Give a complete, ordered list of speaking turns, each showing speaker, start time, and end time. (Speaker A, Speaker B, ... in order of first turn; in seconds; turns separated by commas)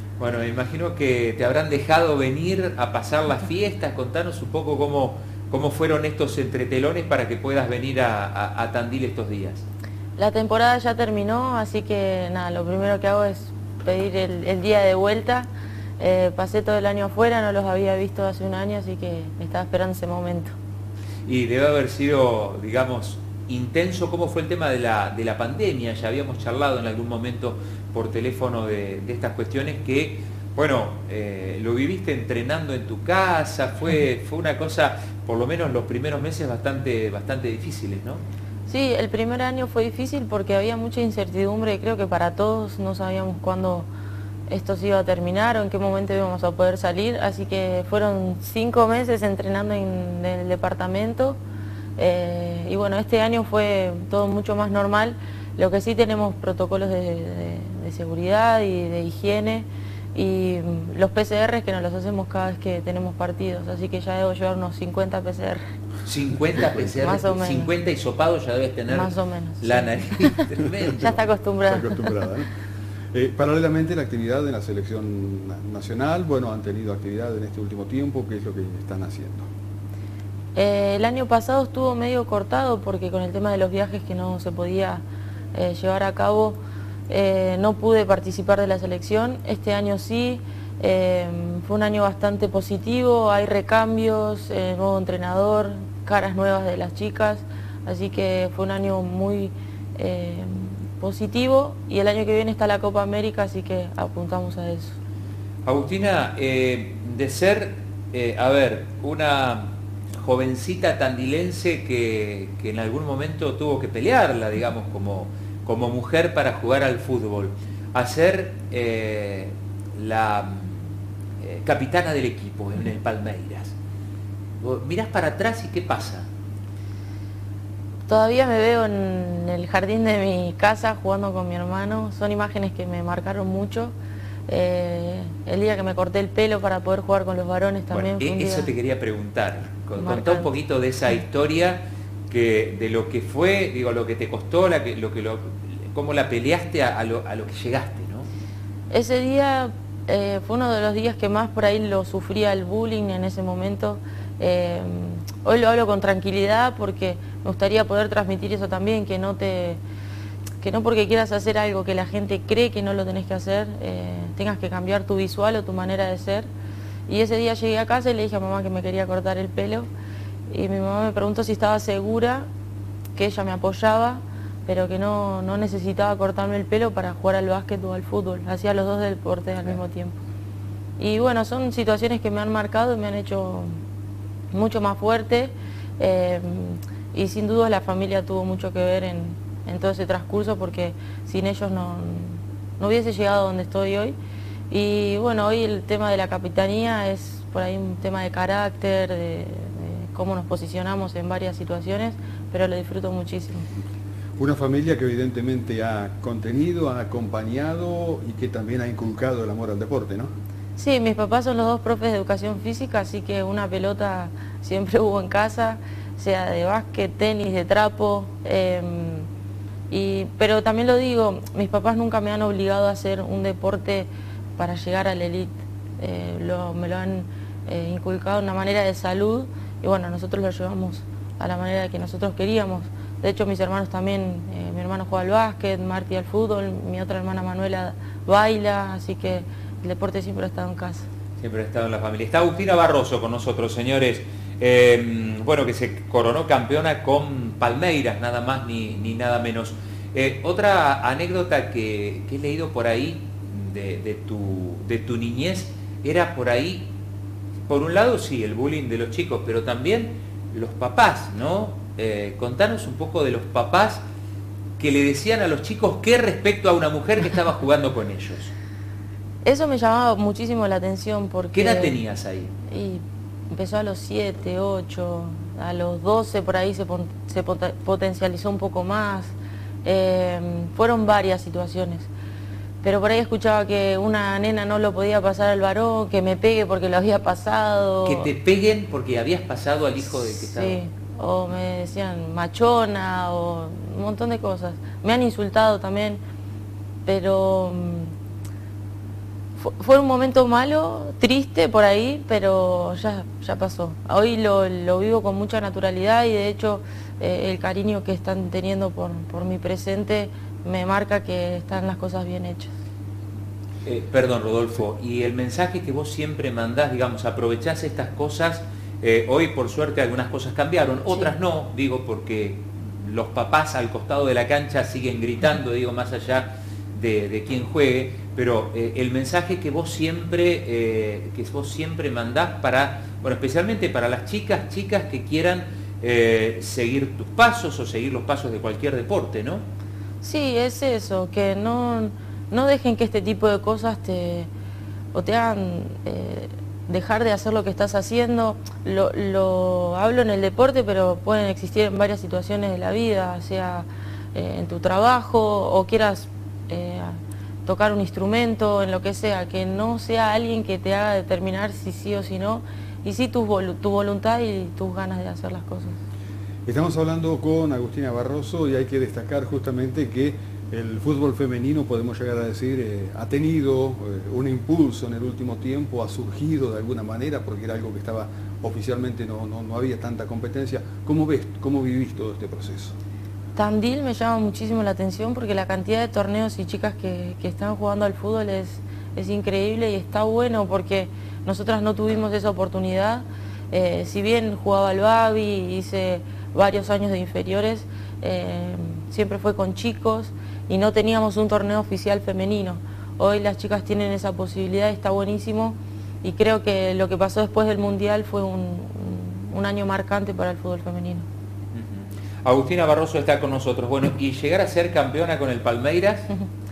Speaker A: 0.2-9.6, Speaker B: 10.2-15.5, Speaker B: 16.0-20.5, Speaker A: 21.2-38.2, Speaker B: 38.7-43.9, Speaker B: 44.5-51.4, Speaker B: 52.0-65.6, Speaker A: 66.0-71.2, Speaker B: 66.9-67.7, Speaker B: 68.9-72.1, Speaker C: 71.7-72.5, Speaker C: 73.1-79.5, Speaker B: 80.5-85.0, Speaker B: 85.5-104.9, Speaker A: 105.6-120.9, Speaker A: 121.4-123.7, Speaker A: 124.6-126.3, Speaker B: 128.1-133.9, Speaker B: 134.5-138.7, Speaker A: 137.9-148.3, Speaker B: 140.0-140.5, Speaker B: 148.9-159.8, Speaker B: 160.6-166.5, Speaker B: 167.1-169.9, Speaker B: 170.5-172.5, Speaker B: 173.2-180.2, Speaker B: 181.0-183.7, Speaker B: 184.5-194.2, Speaker B: 194.7-203.6, Speaker C: 204.4-210.3, Speaker B: 210.8-219.3, Speaker B: 219.9-241.1, Speaker A: 241.4-256.9, Speaker A: 257.7-264.0, Speaker A: 264.8-268.5, Speaker B: 269.4-272.0, Speaker A: 271.5-272.5, Speaker B: 272.7-279.3, Speaker B: 279.8-282.1, Speaker B: 282.8-288.3, Speaker A: 288.0-290.8, Speaker B: 290.4-296.2, Speaker B: 297.1-298.1, Speaker B: 299.6-312.7, Speaker A: 313.8-339.6, Speaker B: 340.2-344.5, Speaker B: 345.1-366.0, Speaker C: 366.7-382.9, Speaker B: 383.6-411.2, Speaker A: 411.7-416.3